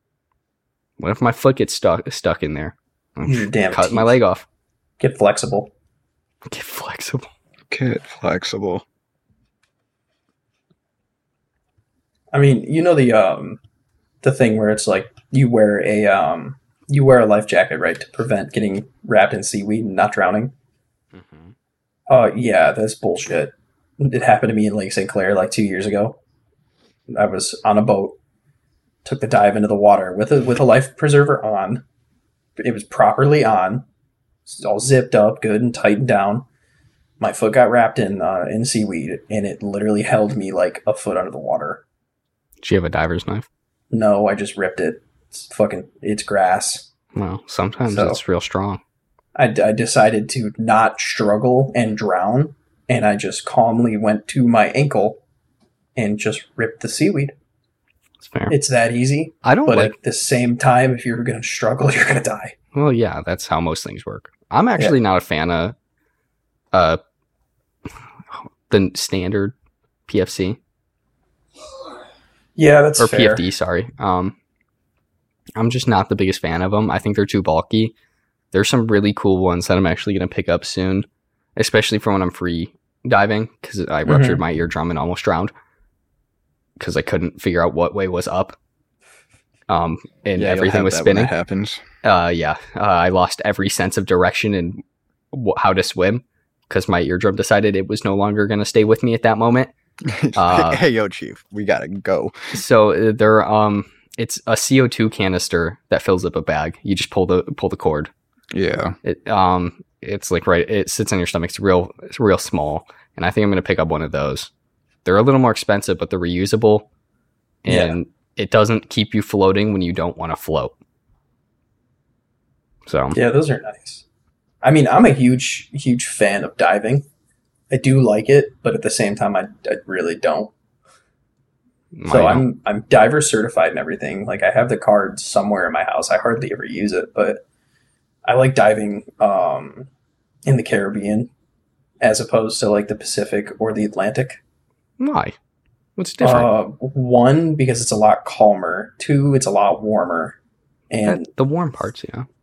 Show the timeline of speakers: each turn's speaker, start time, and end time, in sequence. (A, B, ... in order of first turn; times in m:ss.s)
0:01.0-0:04.5 A
0:03.3-0:04.2 B
0:05.0-0:05.7 B
0:06.5-0:07.3 A
0:07.7-0:08.8 C
0:12.3-0:13.6 B
0:14.2-0:20.5 B
0:21.1-0:21.5 A
0:22.1-0:26.2 B
0:27.1-0:28.2 B
0:29.0-0:31.8 B
0:32.6-0:33.8 B
0:34.5-0:36.4 B
0:37.2-0:41.8 B
0:42.6-0:43.5 A
0:43.9-0:46.9 B
0:47.2-0:48.8 A
0:47.9-0:48.2 B
0:49.4-0:55.2 B
0:56.0-0:57.3 B
0:58.2-0:58.6 A
0:58.5-1:02.6 B
0:59.4-1:00.0 A
1:02.7-1:05.8 A
1:06.7-1:07.0 A
1:08.3-1:09.5 A
1:10.1-1:10.6 A
1:12.6-1:13.5 B
1:13.0-1:14.4 A
1:15.6-1:17.9 A
1:18.5-1:21.1 A
1:21.6-1:25.5 A
1:24.1-1:24.4 B
1:26.8-1:28.6 A
1:29.7-1:31.3 A
1:30.4-1:31.8 C
1:32.0-1:39.7 A
1:40.0-1:42.5 C
1:40.4-1:40.8 A
1:42.5-1:48.1 A
1:48.5-1:49.0 C
1:49.0-1:54.5 A
1:55.0-1:56.9 A
1:57.6-2:00.7 A
1:57.7-1:58.0 B
2:02.9-2:03.2 A
2:03.1-2:04.0 B
2:04.6-2:07.1 B
2:07.7-2:10.5 B
2:12.0-2:12.4 A
2:12.1-2:17.4 B
2:18.2-2:19.9 B
2:20.4-2:21.3 B
2:22.0-2:24.4 B
2:25.0-2:25.4 A
2:26.0-2:26.5 A
2:26.2-2:30.4 B
2:30.9-2:31.3 B
2:31.0-2:32.3 A